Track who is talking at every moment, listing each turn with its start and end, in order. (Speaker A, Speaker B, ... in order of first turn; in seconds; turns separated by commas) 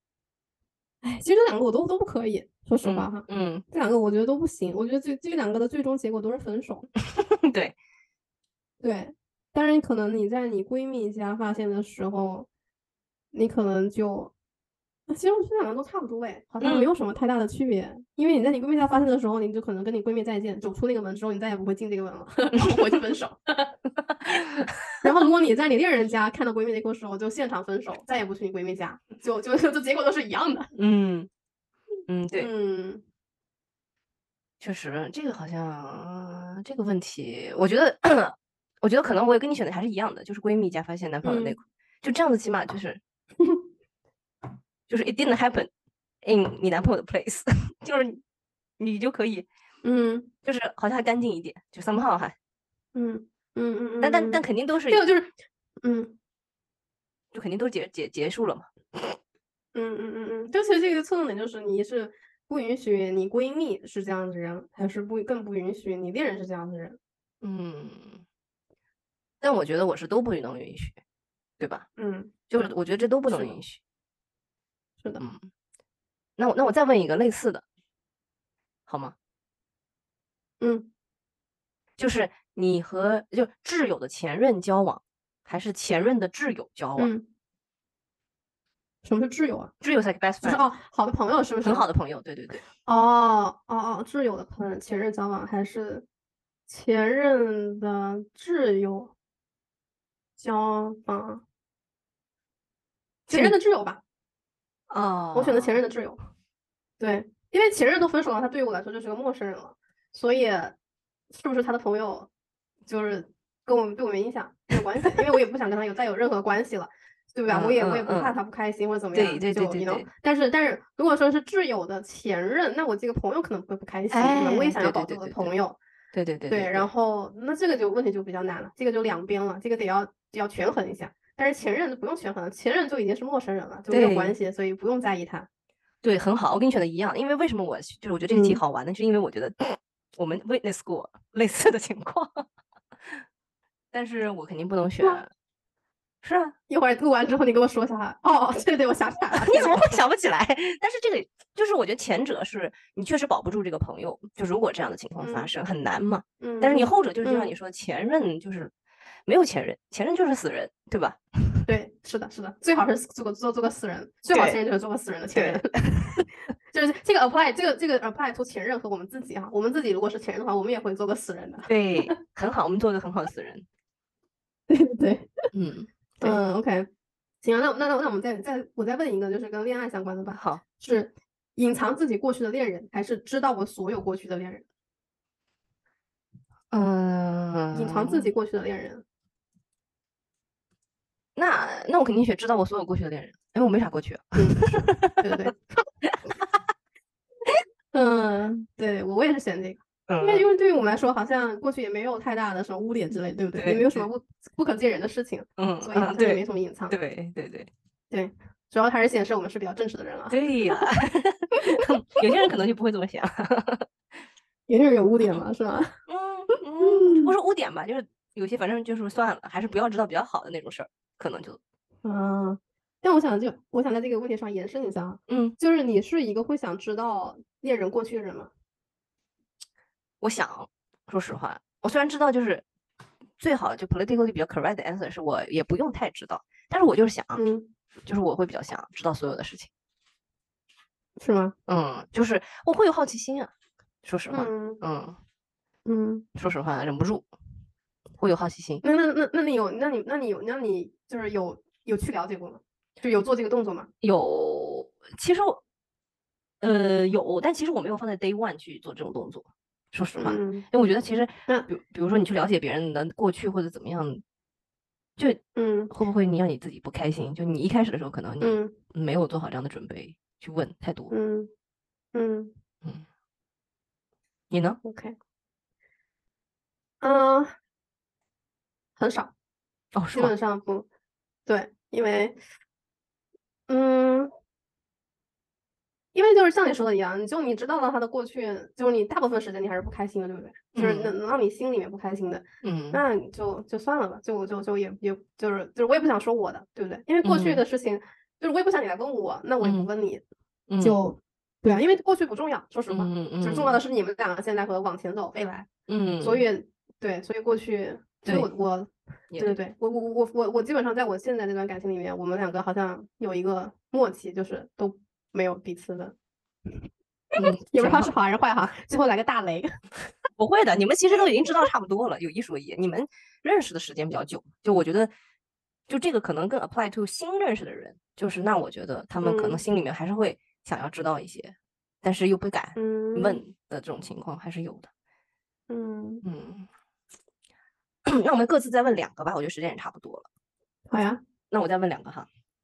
Speaker A: 1.0-6.9, Speaker B: 2.8-3.6, Speaker B: 7.1-7.7, Speaker A: 8.8-12.5, Speaker A: 13.3-14.3, Speaker A: 15.1-23.8, Speaker B: 16.6-16.9, Speaker B: 24.3-24.7, Speaker A: 25.0-30.7, Speaker B: 30.8-31.3, Speaker B: 32.1-32.5, Speaker A: 32.4-33.0, Speaker B: 34.6-43.0, Speaker A: 41.2-41.6, Speaker B: 44.9-45.7, Speaker B: 46.2-48.2, Speaker B: 48.8-49.5, Speaker A: 49.8-50.3, Speaker B: 50.4-52.3, Speaker A: 52.9-56.1, Speaker B: 54.0-55.0, Speaker B: 57.3-58.7, Speaker A: 59.7-67.0, Speaker B: 67.4-68.2, Speaker B: 69.4-71.0, Speaker B: 71.6-71.9, Speaker A: 72.0-72.3, Speaker B: 72.5-73.8, Speaker A: 73.3-73.6, Speaker B: 75.2-75.4, Speaker B: 76.4-77.6, Speaker B: 78.9-79.1, Speaker A: 80.6-80.9, Speaker B: 82.0-87.1, Speaker A: 87.0-87.2, Speaker A: 89.0-89.7, Speaker B: 89.8-90.6, Speaker A: 90.4-91.9, Speaker B: 91.6-92.6, Speaker A: 92.8-96.0, Speaker A: 96.7-99.1, Speaker A: 100.4-101.4, Speaker B: 103.3-103.5, Speaker A: 103.3-104.0, Speaker B: 104.9-105.8, Speaker A: 105.3-106.2, Speaker A: 107.0-110.8, Speaker A: 111.3-112.3, Speaker A: 112.9-125.8, Speaker B: 117.5-118.4, Speaker B: 119.1-120.1, Speaker B: 124.1-125.5, Speaker B: 126.1-126.9, Speaker A: 126.5-135.5, Speaker B: 133.9-134.3, Speaker B: 136.0-142.4, Speaker A: 138.3-138.6, Speaker B: 143.9-145.3, Speaker B: 146.2-146.5, Speaker A: 146.7-149.8, Speaker B: 149.3-158.7, Speaker A: 155.2-155.5, Speaker A: 156.4-157.5, Speaker B: 159.2-161.6, Speaker A: 161.7-166.1, Speaker B: 164.3-164.6, Speaker B: 165.3-166.2, Speaker A: 166.7-172.2, Speaker B: 171.7-173.6, Speaker A: 174.7-175.3, Speaker B: 175.5-176.4, Speaker A: 176.2-176.9, Speaker A: 177.4-184.7, Speaker B: 180.3-180.6, Speaker B: 186.7-188.3, Speaker A: 187.7-189.0, Speaker B: 191.3-195.4, Speaker A: 194.4-195.8, Speaker A: 197.9-206.9, Speaker B: 200.1-200.5, Speaker B: 203.6-204.1, Speaker B: 205.6-207.7, Speaker A: 208.1-210.8, Speaker B: 210.3-213.9, Speaker A: 211.5-211.8, Speaker A: 214.7-215.9, Speaker B: 216.1-221.6, Speaker A: 216.8-217.3, Speaker A: 222.0-228.5, Speaker B: 225.3-225.6, Speaker B: 230.2-232.6, Speaker B: 233.4-237.4, Speaker A: 237.3-237.7, Speaker B: 238.0-239.7, Speaker A: 241.2-241.5, Speaker B: 241.7-243.5, Speaker B: 244.0-245.2, Speaker A: 244.3-244.8, Speaker A: 245.8-246.2, Speaker B: 246.3-247.3, Speaker B: 248.2-248.8, Speaker A: 248.8-253.9, Speaker B: 254.0-255.6, Speaker B: 256.6-264.2, Speaker A: 260.2-260.6, Speaker B: 265.2-271.1, Speaker A: 265.5-265.9, Speaker A: 268.4-268.8, Speaker A: 271.1-271.5, Speaker A: 272.1-272.5, Speaker B: 274.5-274.8, Speaker A: 274.8-275.1, Speaker A: 277.0-277.5, Speaker A: 279.0-279.3, Speaker B: 279.9-280.3, Speaker A: 280.1-280.9, Speaker A: 281.4-282.4, Speaker A: 283.7-284.3, Speaker A: 286.1-300.2, Speaker B: 290.7-291.1, Speaker B: 292.6-293.0, Speaker B: 297.2-297.6, Speaker B: 299.6-299.9, Speaker B: 300.7-301.0, Speaker A: 300.8-305.7, Speaker B: 302.9-303.8, Speaker B: 305.9-306.4, Speaker A: 306.2-316.1, Speaker B: 309.3-309.6, Speaker A: 317.3-319.7, Speaker B: 317.4-318.1, Speaker B: 320.4-325.1, Speaker B: 325.9-334.9, Speaker A: 329.2-329.6, Speaker A: 332.8-333.4, Speaker A: 335.7-336.2, Speaker B: 336.2-336.7, Speaker B: 338.1-340.2, Speaker A: 340.9-341.2, Speaker B: 341.5-342.3